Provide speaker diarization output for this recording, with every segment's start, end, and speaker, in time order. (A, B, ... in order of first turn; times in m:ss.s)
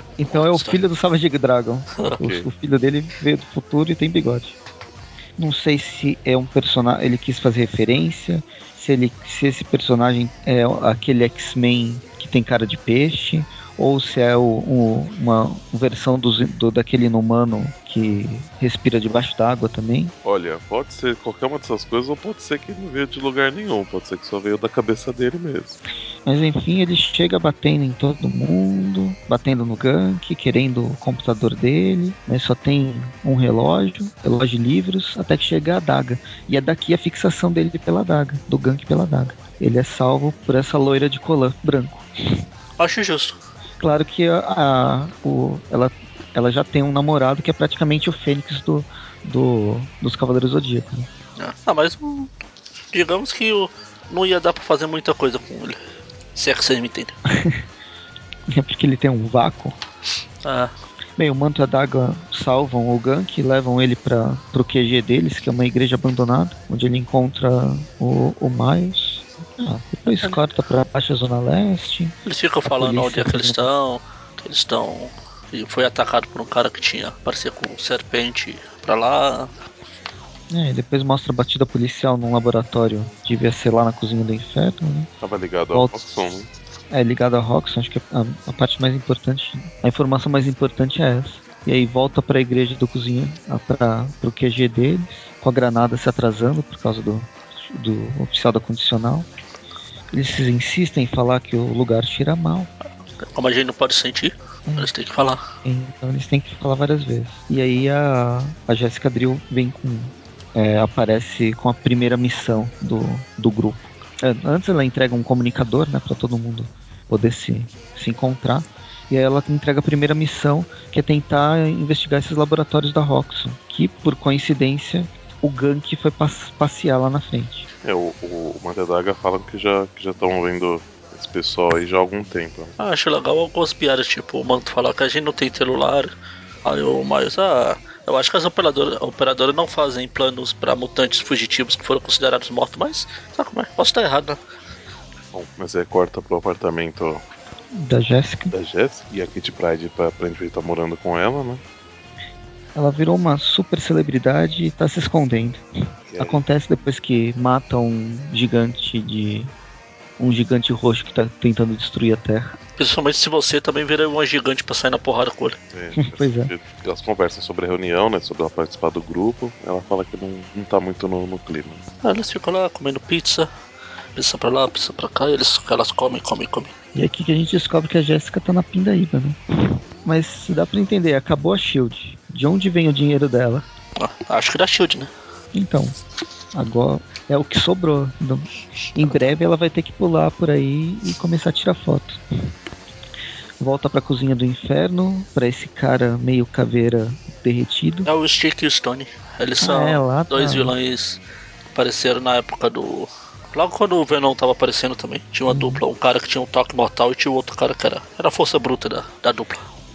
0:00.2-0:04.6 A
0:00.3-0:00.8 B
0:02.2-0:02.5 C
0:05.4-0:20.1 A
0:20.2-0:25.8 C
0:26.3-0:42.1 A
0:42.8-0:43.4 B
0:43.8-0:51.1 A
0:51.4-0:52.3 B
0:52.9-0:55.8 B
0:56.4-0:57.2 B
0:57.3-0:57.6 A
0:58.5-0:59.8 A
1:00.4-1:00.7 B
1:01.2-1:13.7 A
1:12.2-1:19.5 B
1:20.5-1:25.1 A
1:25.2-1:26.5 C
1:26.9-1:39.3 A
1:40.1-1:42.7 A
1:43.2-1:45.4 B
1:45.6-2:07.7 A
2:07.8-2:12.8 C
2:12.8-2:16.1 B
2:16.6-2:24.4 B
2:25.3-2:27.2 C
2:27.7-2:28.5 A
2:28.5-2:31.6 C
2:32.8-2:35.6 A
2:36.1-2:36.4 C
2:36.2-2:39.5 A
2:40.2-2:42.6 A
2:42.8-2:45.6 B
2:45.7-2:51.8 C
2:46.0-2:46.5 A
2:52.0-2:53.5 B
2:54.2-2:56.7 B
2:56.9-3:03.7 A
3:04.0-3:05.1 B
3:05.5-3:05.9 A
3:06.5-3:12.2 A
3:13.6-3:18.1 A
3:18.0-3:21.2 B
3:19.6-3:20.7 A
3:21.7-3:29.6 B
3:25.5-3:25.8 A